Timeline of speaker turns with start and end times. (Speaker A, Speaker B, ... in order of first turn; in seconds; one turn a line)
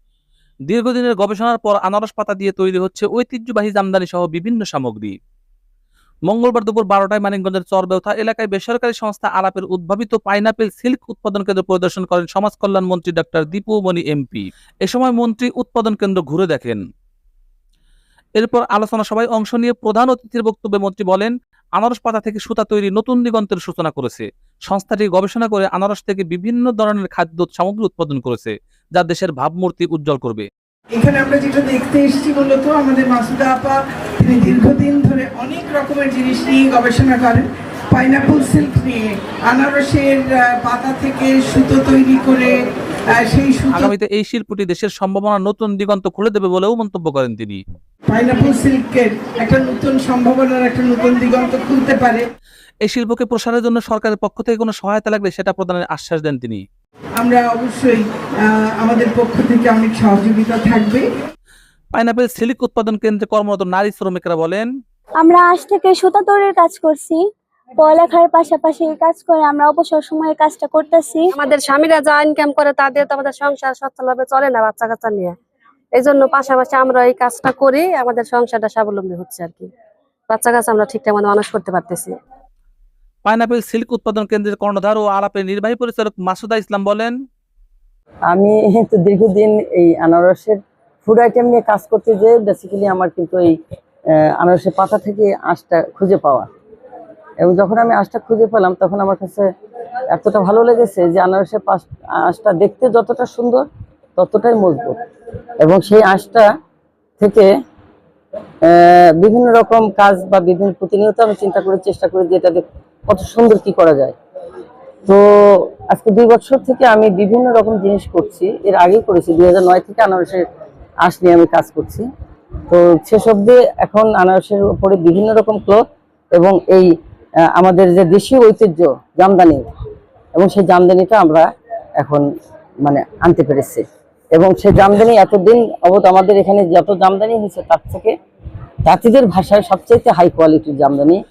Speaker A: 0.7-5.2
Speaker A: 6.3-16.8
Speaker A: 18.4-30.5
Speaker B: 31.0-33.7
Speaker B: 34.2-37.4
Speaker B: 37.9-38.9
Speaker B: 39.5-42.5
Speaker B: 43.4-43.8
Speaker A: 43.7-47.6
Speaker B: 48.1-52.2
Speaker A: 52.9-56.6
Speaker B: 57.2-58.0
Speaker B: 58.8-61.0
Speaker A: 61.9-64.7
Speaker C: 65.2-67.2
Speaker C: 67.8-71.3
Speaker D: 71.3-75.3
Speaker D: 76.0-79.7
Speaker D: 80.3-82.1
Speaker A: 83.2-87.1
Speaker E: 88.3-93.5
Speaker E: 94.2-96.5
Speaker E: 97.4-99.5
Speaker E: 100.1-103.6
Speaker E: 104.2-105.0
Speaker E: 105.6-106.5
Speaker E: 107.2-107.5
Speaker E: 108.6-114.1
Speaker E: 115.0-120.4
Speaker E: 121.0-122.0
Speaker E: 122.7-125.8
Speaker E: 126.3-126.9
Speaker E: 127.5-129.7
Speaker E: 130.3-131.5
Speaker E: 132.0-132.2
Speaker E: 132.8-133.8
Speaker E: 134.3-138.1
Speaker E: 138.8-141.2